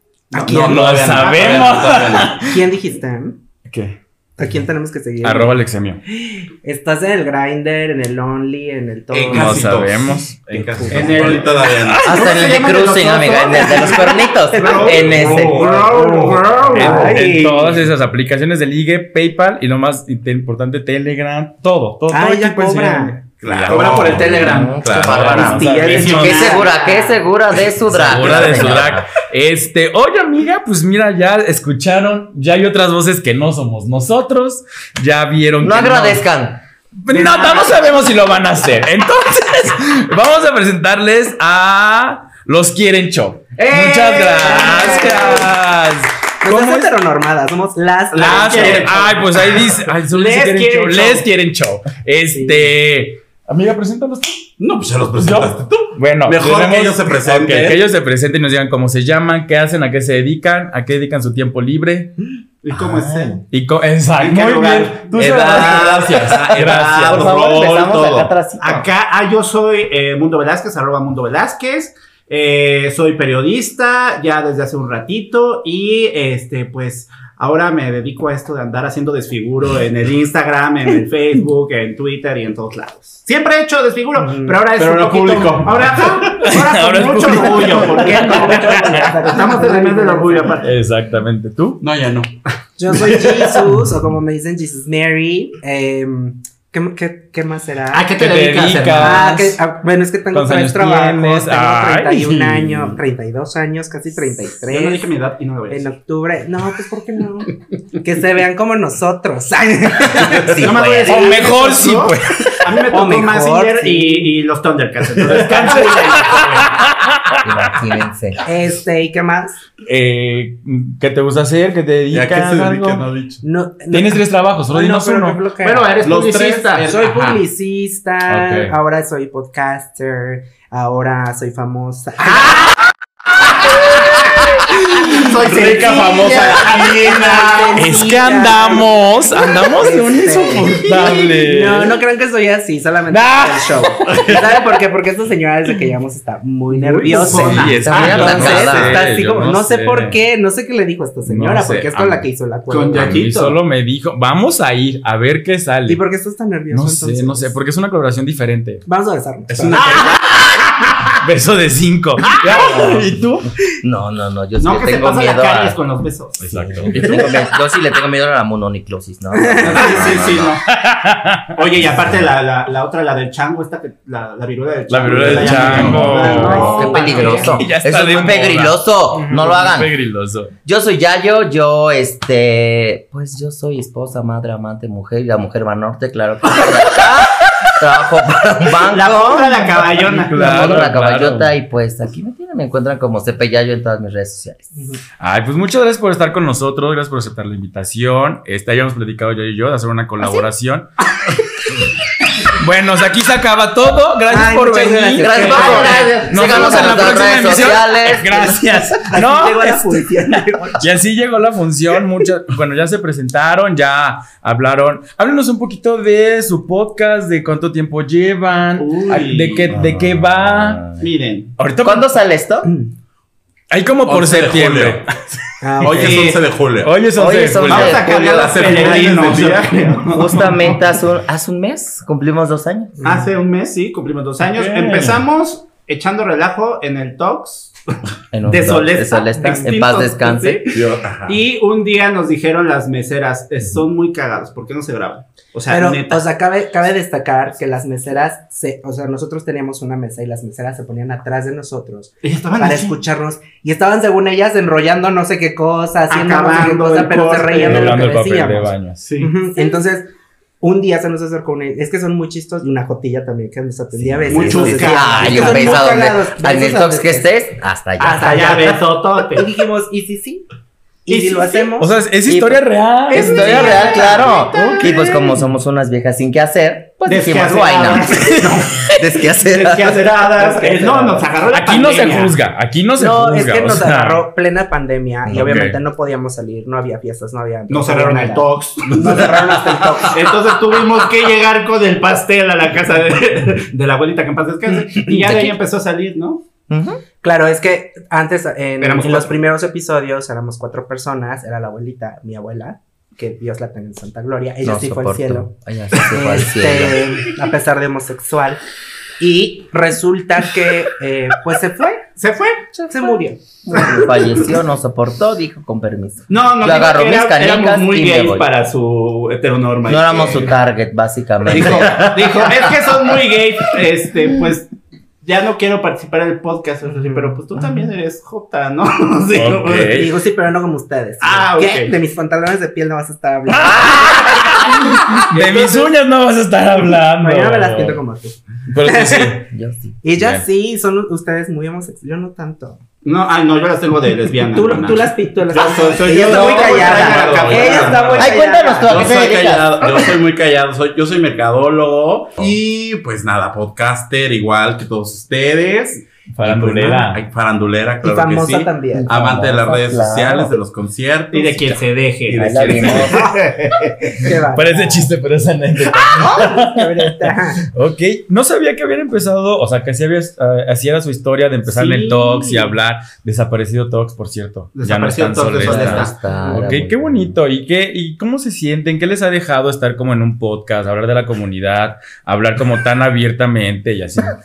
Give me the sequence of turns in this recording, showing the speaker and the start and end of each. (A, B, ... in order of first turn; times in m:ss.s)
0:00.3-0:02.5 A
0:00.3-0:01.3 B
0:00.5-0:02.5 C
0:01.2-0:02.0 D
0:02.4-0:03.4 B
0:03.7-0:04.0 C
0:04.4-0:09.7 B
0:05.2-0:06.0 C
0:09.1-0:12.2 A
0:09.3-0:11.5 C
0:10.8-0:11.5 B
0:10.9-0:17.4 D
0:12.0-0:15.7 E
0:14.5-0:17.8 B
0:15.5-0:16.0 C
0:16.7-0:26.5 C
0:22.1-0:23.2 B
0:23.4-0:25.5 A
0:23.7-0:26.7 D
0:24.2-0:29.1 E
0:25.2-0:27.2 B
0:27.9-0:36.2 C
0:35.6-0:36.6 E
0:37.0-0:46.9 C
0:37.1-0:38.1 B
0:43.6-0:45.5 D
0:44.4-0:45.5 B
0:46.4-0:48.9 B
0:48.1-0:51.2 D
0:48.1-0:54.5 C
0:48.6-0:49.0 A
0:52.3-0:52.7 B
0:54.6-0:57.8 A
0:55.2-1:02.1 C
1:02.6-1:03.4 D
1:02.7-1:03.4 E
1:03.5-1:07.3 C
1:04.2-1:30.7 D
1:05.2-1:08.2 A
1:07.1-1:08.9 E
1:24.2-1:24.6 B
1:24.8-1:26.3 A
1:26.4-1:29.2 C
1:27.2-1:30.6 B
1:30.6-1:31.8 C
1:31.8-1:32.3 A
1:32.8-1:38.1 B
1:32.9-1:33.2 A
1:37.9-1:39.4 D
1:38.2-1:39.6 C
1:38.9-1:45.1 B
1:40.3-1:43.0 C
1:44.7-1:45.9 D
1:45.7-1:50.6 B
1:50.1-1:51.3 E
1:50.4-1:56.8 D
1:51.0-1:52.6 C
1:52.9-1:54.3 B
1:55.2-1:56.6 B
1:55.3-1:57.4 C
1:57.4-1:58.4 E
1:58.4-1:59.6 B
1:59.9-2:03.0 C
2:02.1-2:03.4 A
2:03.4-2:12.6 B
2:03.9-2:05.4 C
2:05.6-2:06.9 D
2:06.0-2:07.4 A
2:08.3-2:08.7 C
2:15.1-2:17.6 D
2:15.2-2:33.2 B
2:15.2-2:17.7 A
2:17.7-2:22.0 C
2:23.1-2:23.9 C
2:24.1-2:24.4 A
2:26.7-2:30.2 C
2:27.1-2:28.8 D
2:27.8-2:29.0 E
2:31.2-2:32.2 C
2:32.7-2:33.6 D
2:32.9-2:36.0 C
2:35.9-2:37.5 B
2:36.7-2:38.9 C
2:38.8-2:40.2 B
2:39.5-2:40.2 C
2:39.7-2:40.6 D
2:41.2-2:43.5 C
2:42.5-2:43.1 E
2:43.8-2:45.8 E
2:44.6-2:47.1 D
2:46.4-2:47.1 C
2:46.8-2:50.6 E
2:49.3-2:50.2 B
2:49.7-2:50.6 D
2:50.6-2:51.6 C
2:51.6-2:57.6 D
2:54.9-3:00.5 C
2:55.0-2:57.7 B
2:55.2-2:56.1 A
2:55.9-2:59.9 E
2:59.2-2:59.5 B
3:00.6-3:14.7 E
3:08.8-3:10.9 D
3:10.1-3:11.5 C
3:15.2-3:20.9 C
3:22.5-3:40.8 C
3:24.3-3:26.2 B
3:25.2-3:28.6 E
3:25.3-3:27.4 D
3:28.3-3:30.8 B
3:38.8-3:39.6 D
3:39.7-3:40.0 A
3:41.0-3:41.5 D
3:41.6-3:42.1 C
3:41.8-3:42.7 E
3:43.7-3:45.1 C
3:44.0-3:45.2 A
3:45.6-3:46.4 B
3:45.8-3:47.0 A
3:45.9-3:46.4 D
3:46.8-3:48.0 C
3:47.1-3:48.9 E
3:47.6-3:50.7 D
3:48.2-3:50.0 A
3:50.0-3:53.0 E
3:53.0-3:53.2 B
3:53.0-3:57.7 D
3:54.5-3:55.2 C
3:58.3-4:00.6 E
3:58.4-4:06.2 D
3:59.4-3:59.7 B
4:00.7-4:01.4 A
4:05.7-4:20.1 B
4:12.2-4:13.0 D
4:16.1-4:18.0 D
4:17.6-4:19.0 C
4:19.0-4:19.3 A
4:20.6-4:27.3 B
4:23.9-4:28.8 E
4:24.3-4:25.8 D
4:28.0-4:29.5 D
4:28.2-4:28.8 B
4:29.3-4:30.4 B
4:31.0-4:31.9 B
4:31.1-4:31.7 D
4:31.8-4:33.8 C
4:32.3-4:40.1 E
4:33.1-4:35.3 B
4:33.3-4:35.3 D
4:37.0-4:42.3 D
4:40.4-4:41.2 B
4:41.5-4:44.2 C
4:43.0-4:50.3 B
4:45.3-4:45.8 C
4:47.7-4:56.4 D
4:55.2-4:55.5 B
4:56.7-4:57.0 E
4:57.2-5:08.6 B
4:58.8-4:59.3 D
5:04.6-5:07.2 E
5:09.2-5:12.0 B
5:12.2-5:12.7 D
5:12.9-5:13.9 B
5:13.6-5:18.4 E
5:16.3-5:20.5 D
5:19.8-5:22.1 E
5:21.4-5:24.7 D
5:25.2-5:30.0 D
5:26.9-5:27.3 B
5:29.3-5:30.1 C
5:29.8-5:34.4 B
5:31.2-5:31.9 D
5:33.5-5:38.0 C
5:35.3-5:35.9 D
5:37.2-5:39.5 B
5:38.7-5:39.4 C
5:39.5-5:40.0 E
5:40.0-5:42.8 B
5:40.1-5:40.4 C
5:43.0-5:48.4 D
5:44.4-5:49.2 B
5:45.5-5:48.3 A
5:48.1-5:50.0 E
5:48.8-6:03.1 A
5:56.3-5:57.2 C
5:58.0-5:59.3 B
5:58.9-6:00.6 E
6:01.3-6:03.9 D
6:02.3-6:03.3 E
6:02.9-6:05.1 B
6:04.2-6:24.4 C
6:06.0-6:07.6 B
6:11.8-6:12.7 D
6:14.8-6:16.2 D
6:15.6-6:17.3 E
6:16.3-6:16.6 B